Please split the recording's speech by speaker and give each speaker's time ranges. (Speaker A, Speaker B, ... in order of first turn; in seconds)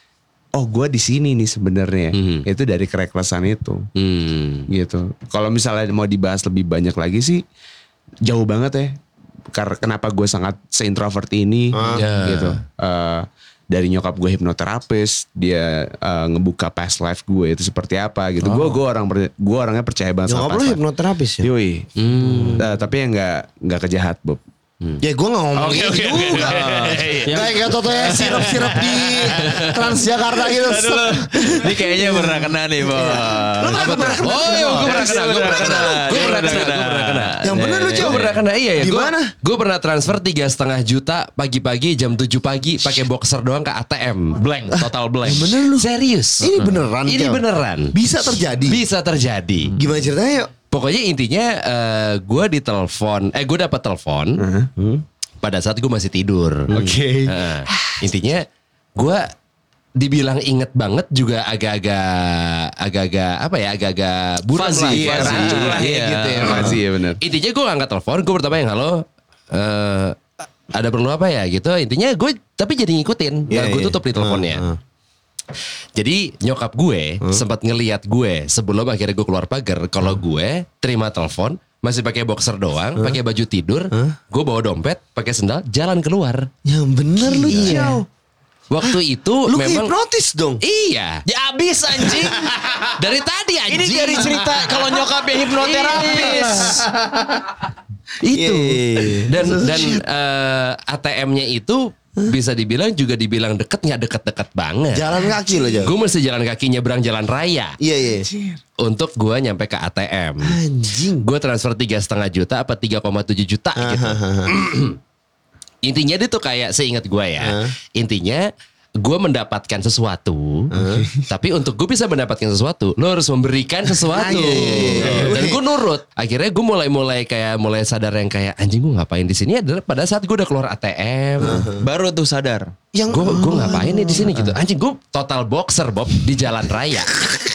Speaker A: 0.5-3.9, 4.7-7.4, 8.2-9.0, 9.5-20.8, 21.4-21.9, 22.6-24.4, 25.6-26.5, 33.6-36.6, 54.4-54.7, 56.7-57.3, 64.9-67.2, 108.2-108.6, 120.8-121.2, 124.2-125.3
Speaker B: 2.1-2.5, 4.0-4.7, 11.9-12.6, 22.0-22.6, 25.7-27.4, 29.4-29.7, 33.7-44.4, 45.8-48.0, 48.5-49.7, 50.7-54.4, 55.4-56.7, 57.3-58.5, 59.0-59.3, 60.0-65.8, 66.6-74.7, 76.0-86.5, 87.5-87.9, 88.7-89.9, 90.6-91.2, 93.0-94.7, 95.6-96.4, 99.2-107.8, 108.8-110.6, 111.2-114.9, 115.8-120.7, 121.3-131.7, 133.1-137.2
Speaker C: 11.7-12.1, 20.3-21.5, 22.2-22.6, 25.0-35.5, 36.1-36.6, 37.4-39.3, 44.7-48.8, 49.8-50.5, 54.8-55.0, 56.7-57.3, 66.5-66.8, 73.5-74.8, 86.7-88.1, 89.5-90.6, 94.1-94.4, 95.7-96.9, 98.2-100.0, 104.9-106.0, 107.8-108.3, 110.4-111.3, 113.8-114.6, 117.4-117.7, 120.7-121.1, 124.1-125.7, 131.4-131.9, 132.9-134.3
Speaker D: 18.5-18.7, 26.3-38.4, 44.4-45.6, 64.5-66.8, 87.5-88.0, 91.3-92.9, 93.7-96.9, 131.8-132.7, 134.2-134.6